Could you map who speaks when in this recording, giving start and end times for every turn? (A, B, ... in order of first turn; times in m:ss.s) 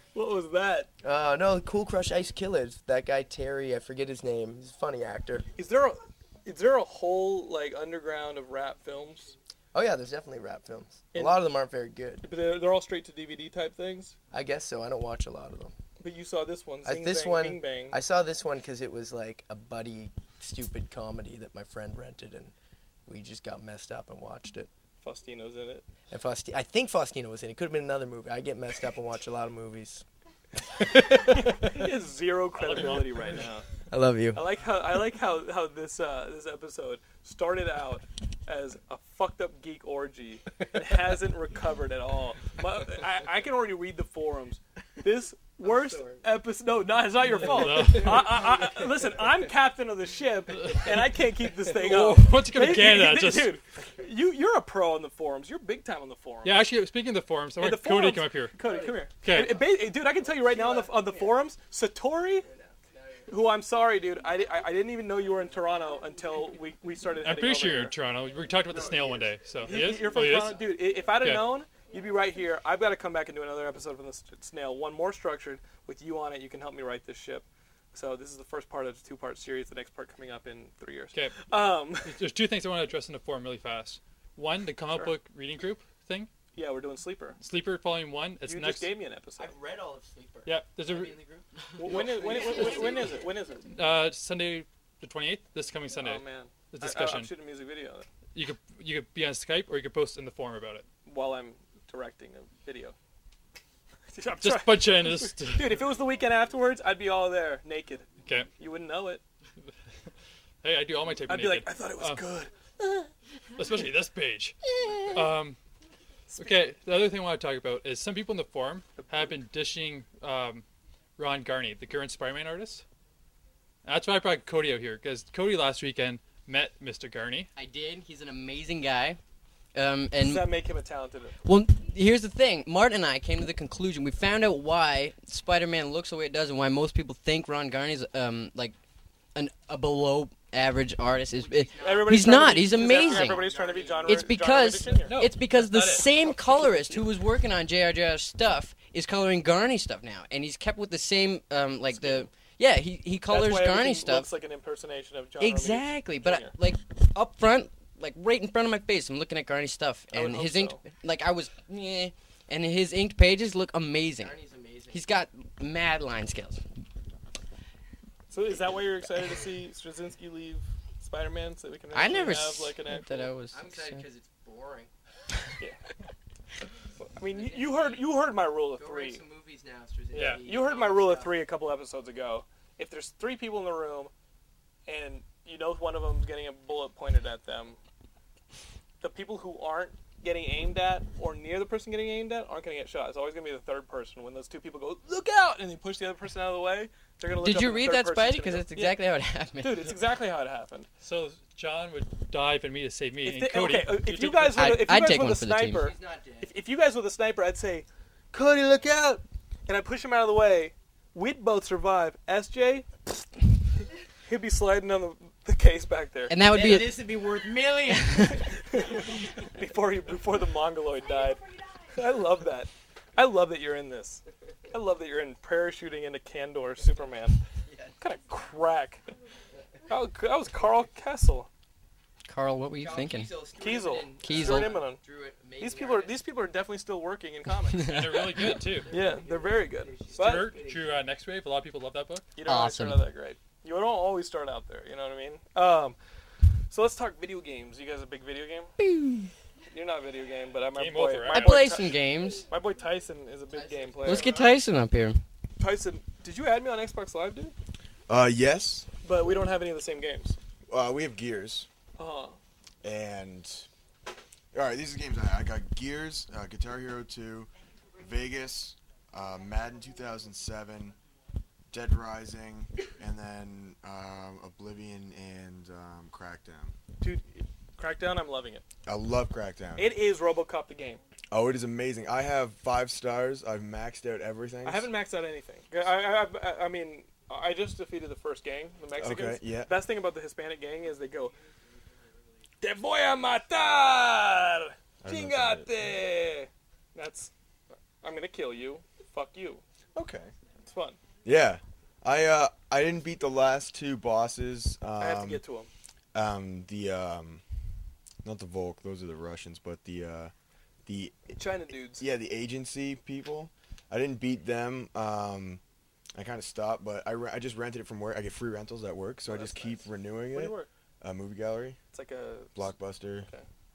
0:00.1-0:00.9 A
0:01.0-0:05.5 B
0:05.6-0:09.4 A
0:09.7-0:12.3 B
0:11.1-0:11.4 A
0:12.2-0:14.2 A
0:14.3-0:15.7 B
0:16.0-0:18.0 A
0:16.8-0:22.5 B
0:23.1-0:24.7 B
0:25.0-0:25.9 A
0:26.1-0:30.0 B
0:30.7-0:31.6 B
0:31.3-0:33.7 A
0:32.6-0:33.4 C
0:33.9-0:34.4 B
0:34.3-0:56.6 A
0:45.6-0:46.2 B
0:47.4-0:48.4 C
0:47.4-0:49.1 B
0:50.6-0:51.1 C
0:51.7-0:53.6 C
0:53.8-0:54.1 B
0:56.4-0:58.6 C
0:57.6-1:02.5 A
0:58.6-0:59.7 B
0:59.1-0:59.6 C
1:00.3-1:01.5 B
1:02.4-1:03.4 B
1:03.3-1:08.0 A
1:07.2-1:10.6 C
1:08.7-1:10.5 B
1:09.6-1:22.2 A
1:11.2-1:11.6 C
1:21.1-1:21.5 C
1:22.0-1:26.3 C
1:26.6-1:27.4 A
1:27.4-1:28.9 C
1:28.4-1:29.6 A
1:29.4-1:33.3 B
1:30.4-1:31.2 C
1:31.8-1:33.7 A
1:33.7-1:37.3 C
1:36.0-1:38.1 A
1:38.3-1:40.9 C
1:41.1-1:43.0 A
1:44.1-1:48.1 A
1:44.4-1:45.9 C
1:48.2-1:48.5 C
1:48.6-1:49.2 A
1:50.6-1:52.3 C
1:51.3-1:52.5 A
1:53.6-1:54.6 C
1:55.1-1:55.6 C
1:56.3-1:56.7 A
1:56.4-2:00.6 C
1:59.0-1:59.4 A
2:01.2-2:02.8 C
2:03.8-2:07.5 C
2:07.6-2:09.2 D
2:09.8-2:10.5 D
2:10.2-2:11.4 A
2:11.4-2:18.8 D
2:19.4-2:23.4 D
2:21.3-2:24.6 B
2:21.8-2:25.2 A
2:24.1-2:34.3 D
2:25.0-2:26.2 C
2:26.2-2:27.0 A
2:31.9-2:32.2 A
2:33.3-2:36.5 A
2:35.4-2:44.4 D
2:40.1-2:40.9 A
2:44.2-2:45.1 B
2:44.9-2:46.6 D
2:48.3-2:53.3 A
2:51.9-2:54.0 D
2:53.5-2:54.9 B
2:57.1-2:59.2 A
2:57.2-2:58.1 B
2:58.8-3:01.4 B
3:00.1-3:04.1 A
3:00.1-3:00.4 C
3:04.9-3:07.8 A
3:09.0-3:19.0 A
3:17.3-3:20.0 D
3:19.6-3:20.9 A
3:21.0-3:24.6 C
3:23.2-3:32.9 A
3:24.4-3:25.9 D
3:25.7-3:26.5 B
3:34.3-3:36.4 A
3:36.3-3:38.5 D
3:36.4-3:38.5 B
3:38.4-3:47.4 A
3:47.6-3:48.0 B
3:48.0-3:49.0 A
3:49.9-3:51.5 A
3:52.3-3:53.4 D
3:52.8-3:56.2 B
3:53.6-3:55.0 A
3:54.2-3:54.8 D
3:55.6-4:00.5 A
3:57.7-3:58.5 D
3:57.8-3:59.0 C
3:58.4-4:01.1 B
4:00.2-4:02.3 C
4:02.4-4:06.0 A
4:02.4-4:03.1 D
4:06.7-4:08.7 A
4:08.8-4:09.3 D
4:09.7-4:14.5 A
4:10.7-4:11.8 C
4:11.3-4:12.5 D
4:13.5-4:14.5 B
4:14.0-4:15.2 D
4:15.6-4:17.6 A
4:18.1-4:18.9 E
4:19.0-4:20.4 A
4:20.7-4:21.7 E
4:22.0-4:22.4 A
4:22.8-4:23.7 E
4:24.5-4:31.0 E
4:31.7-4:36.7 E
4:37.0-4:38.6 A
4:38.8-4:40.0 E
4:39.8-4:41.0 A
4:41.3-4:44.9 E
4:44.6-4:51.4 A
4:49.0-4:49.8 E
4:52.6-4:57.3 A
4:55.0-4:55.7 E
4:58.0-4:59.6 A
5:00.0-5:00.3 E
5:00.7-5:01.0 A
5:01.2-5:05.4 E
5:05.0-5:05.7 A
5:06.1-5:07.4 E
5:08.2-5:10.3 E
5:10.9-5:11.4 E
5:11.4-5:12.1 A
5:11.9-5:15.6 E
5:16.2-5:21.8 E
5:19.3-5:20.7 A
5:21.9-5:22.6 A
5:22.6-5:23.3 E